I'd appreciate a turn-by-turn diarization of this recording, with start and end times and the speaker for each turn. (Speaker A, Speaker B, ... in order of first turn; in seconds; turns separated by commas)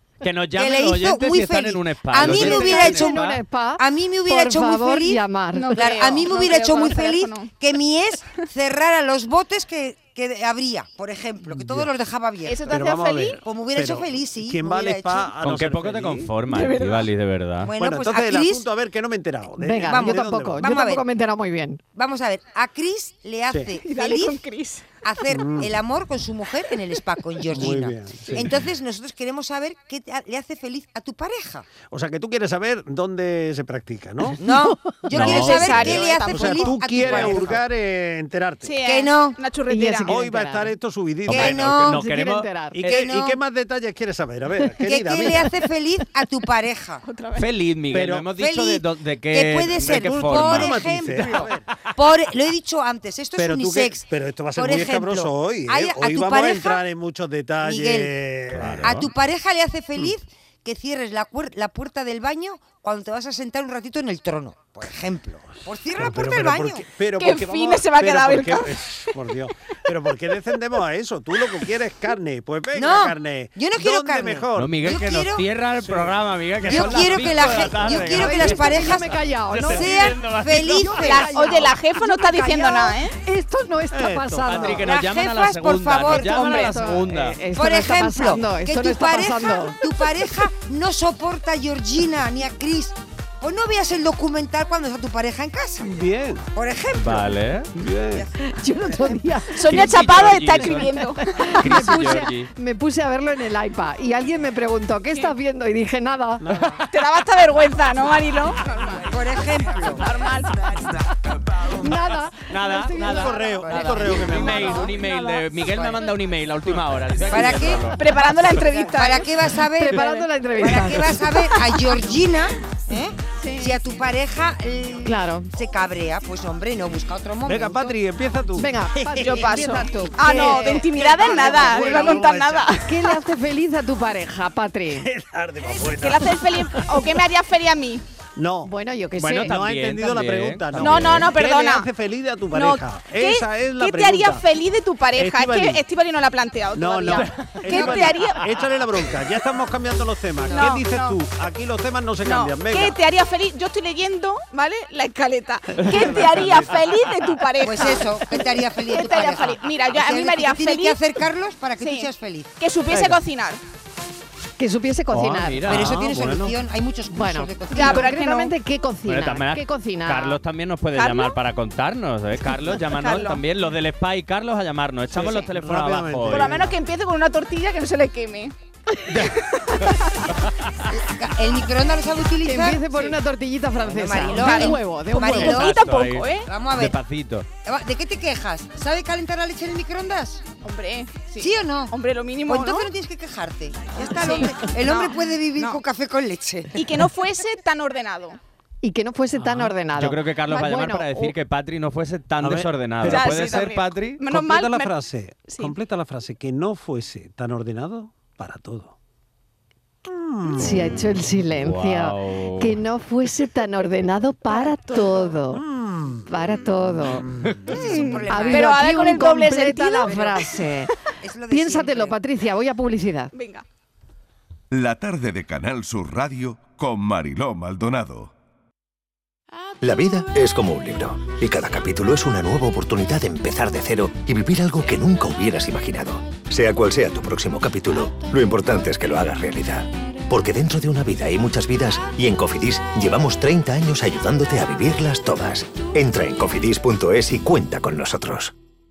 Speaker A: 0.2-3.4, Speaker B: 0.6-3.2, Speaker C: 2.2-5.8, Speaker B: 3.8-5.2, Speaker D: 5.5-7.5, Speaker B: 5.8-12.9, Speaker E: 11.5-11.9, Speaker D: 12.4-13.4, Speaker E: 12.7-16.3, Speaker B: 13.4-15.3, Speaker A: 15.4-17.7, Speaker D: 16.5-17.1, Speaker B: 17.6-18.7, Speaker E: 17.8-20.6, Speaker C: 19.6-21.8, Speaker B: 19.8-21.1, Speaker B: 21.9-24.4, Speaker D: 23.8-24.9, Speaker B: 25.0-31.7, Speaker E: 25.3-25.7, Speaker E: 27.5-28.5, Speaker E: 31.9-34.4, Speaker B: 34.4-37.6, Speaker A: 35.1-36.0, Speaker D: 35.2-37.5, Speaker E: 35.6-38.7, Speaker A: 37.1-37.5, Speaker D: 38.6-40.1, Speaker B: 38.8-39.4, Speaker C: 39.7-40.8, Speaker E: 40.1-41.6, Speaker B: 41.3-42.0, Speaker A: 41.3-43.0, Speaker C: 41.8-42.9, Speaker E: 42.8-45.5, Speaker B: 42.9-43.4, Speaker B: 44.8-47.0, Speaker D: 47.0-47.5, Speaker A: 47.4-50.8, Speaker E: 47.9-48.3, Speaker B: 48.3-56.8, Speaker E: 49.8-51.6, Speaker E: 53.4-59.0, Speaker B: 57.6-58.1, Speaker A: 58.6-59.1, Speaker B: 58.8-66.9, Speaker E: 66.0-74.8, Speaker D: 67.2-69.1, Speaker B: 72.7-75.5, Speaker A: 74.6-79.0, Speaker E: 75.8-77.7, Speaker B: 76.6-83.0, Speaker C: 78.0-80.1, Speaker A: 79.5-81.4, Speaker C: 80.8-81.8, Speaker D: 81.1-83.2, Speaker C: 83.2-84.8, Speaker E: 83.9-84.8, Speaker A: 84.5-87.4, Speaker B: 84.8-86.7, Speaker C: 86.1-89.8, Speaker D: 86.4-86.6, Speaker B: 87.5-95.9, Speaker E: 95.8-96.4, Speaker B: 96.5-97.3, Speaker A: 97.0-97.7, Speaker E: 97.7-98.2, Speaker B: 98.1-99.2, Speaker C: 98.6-106.5, Speaker D: 99.5-101.9, Speaker A: 99.7-101.0, Speaker A: 101.6-102.5, Speaker E: 106.4-106.8, Speaker D: 106.9-109.2, Speaker B: 109.0-110.0, Speaker D: 109.9-110.9, Speaker C: 111.7-113.4, Speaker A: 112.5-118.0, Speaker E: 112.8-114.9, Speaker B: 113.7-114.8, Speaker B: 117.3-128.0, Speaker D: 118.0-119.3, Speaker C: 119.8-121.3, Speaker D: 120.0-120.3, Speaker D: 121.5-121.8, Speaker D: 123.4-123.8, Speaker C: 125.0-125.5, Speaker E: 127.5-129.6, Speaker C: 128.6-132.0, Speaker D: 129.2-132.9, Speaker E: 130.3-132.8, Speaker C: 132.8-135.1, Speaker E: 134.9-137.1, Speaker D: 135.9-138.0, Speaker E: 138.4-138.7, Speaker C: 138.7-139.6, Speaker A: 139.2-141.3, Speaker E: 139.4-144.4, Speaker D: 140.8-141.9, Speaker D: 142.5-148.6, Speaker E: 145.2-145.8, Speaker E: 146.7-153.0, Speaker A: 147.2-148.1, Speaker D: 150.5-151.2, Speaker D: 152.2-158.2, Speaker E: 155.8-156.8, Speaker A: 155.8-156.5, Speaker B: 157.6-162.6, Speaker D: 158.9-161.0, Speaker D: 161.8-163.6, Speaker C: 164.6-165.8, Speaker A: 165.1-166.1, Speaker B: 165.7-168.1, Speaker E: 165.7-166.5, Speaker C: 167.1-170.4, Speaker D: 167.7-168.5, Speaker A: 169.1-176.6, Speaker D: 170.9-171.4, Speaker D: 172.8-173.4, Speaker E: 175.1-176.8, Speaker D: 176.3-178.5, Speaker D: 179.2-180.2, Speaker B: 180.9-183.2, Speaker C: 182.4-185.6, Speaker B: 183.8-185.8, Speaker D: 184.3-186.5, Speaker A: 185.4-187.5, Speaker B: 186.4-187.0, Speaker B: 187.7-190.4, Speaker D: 190.6-192.9, Speaker B: 191.4-191.9, Speaker B: 192.5-196.8, Speaker D: 194.1-195.8, Speaker D: 196.8-198.4, Speaker C: 198.8-201.3, Speaker A: 199.4-204.2, Speaker E: 202.4-203.7, Speaker D: 203.0-204.9, Speaker E: 204.2-208.9, Speaker D: 205.5-205.8, Speaker E: 210.1-210.9, Speaker C: 210.5-215.6, Speaker A: 211.6-212.8, Speaker D: 214.5-215.1, Speaker E: 215.5-216.3, Speaker C: 216.3-217.3, Speaker E: 217.0-217.6, Speaker B: 217.7-218.8, Speaker D: 217.8-220.4, Speaker C: 218.3-220.9, Speaker B: 220.1-220.4, Speaker B: 221.2-222.2, Speaker C: 221.5-223.3, Speaker D: 223.3-223.6, Speaker F: 224.7-228.3, Speaker G: 229.8-248.5